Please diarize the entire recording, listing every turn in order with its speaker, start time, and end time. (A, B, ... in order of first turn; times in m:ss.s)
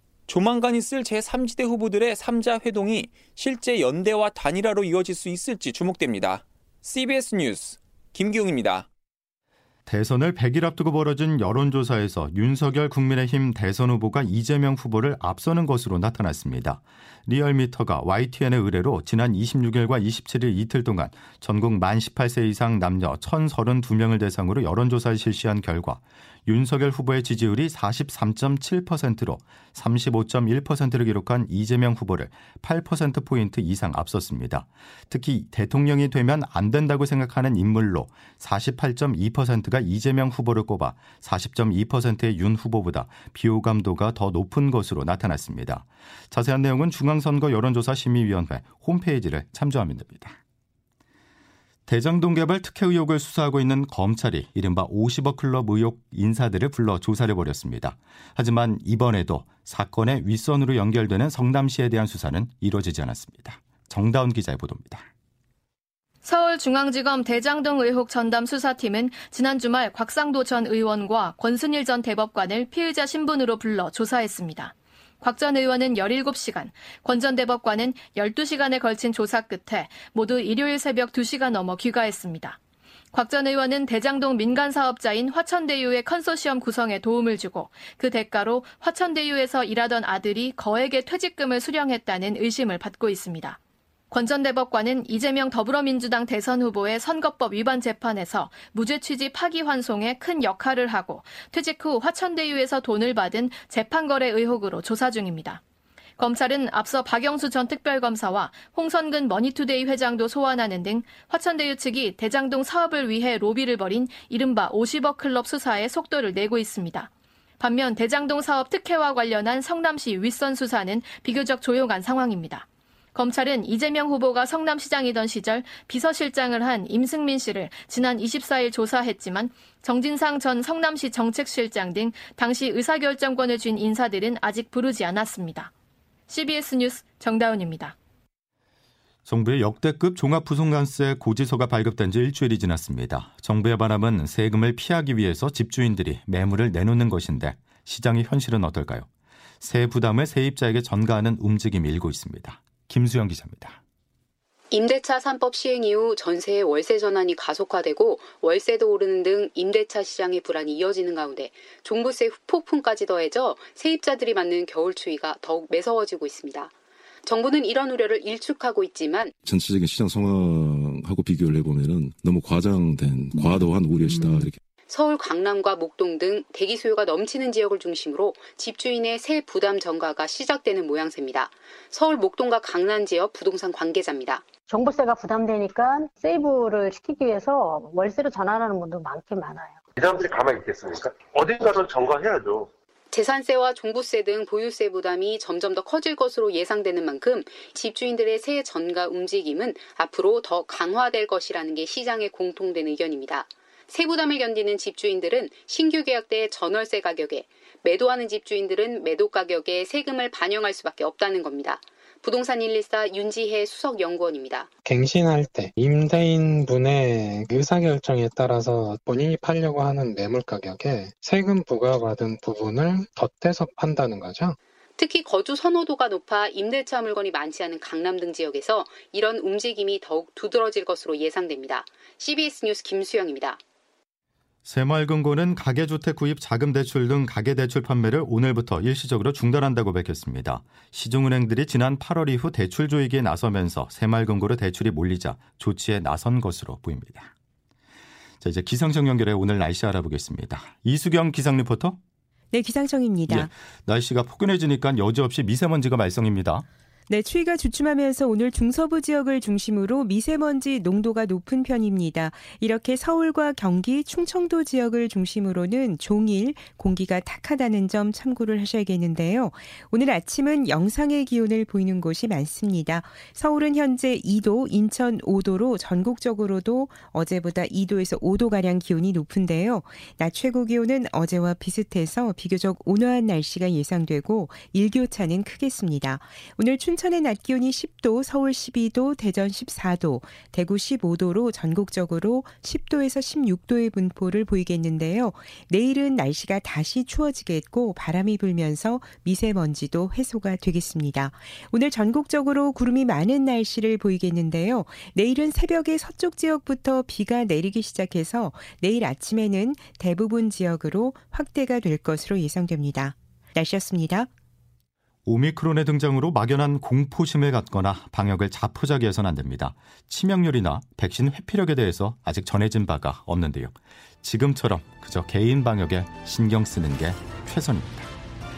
0:00.3-0:08.8 A
0:09.9-0:50.4 B
0:51.9-1:05.1 B
1:06.2-1:22.6 C
1:23.1-1:33.6 C
1:34.1-1:45.6 C
1:46.2-2:15.7 C
2:16.3-2:18.0 C
2:19.3-2:29.1 B
2:29.6-2:33.8 B
2:34.7-2:46.7 D
2:47.3-2:49.3 D
2:49.4-2:54.6 E
2:54.9-3:04.5 D
3:04.7-3:09.8 F
3:10.0-3:12.7 G
3:13.1-3:34.7 D
3:34.8-3:44.6 H
3:45.0-3:53.6 D
3:54.6-4:07.3 B
4:08.4-4:12.0 B
4:12.5-4:13.5 I
4:13.3-4:16.6 B
4:17.1-5:14.3 I
5:15.3-5:28.1 B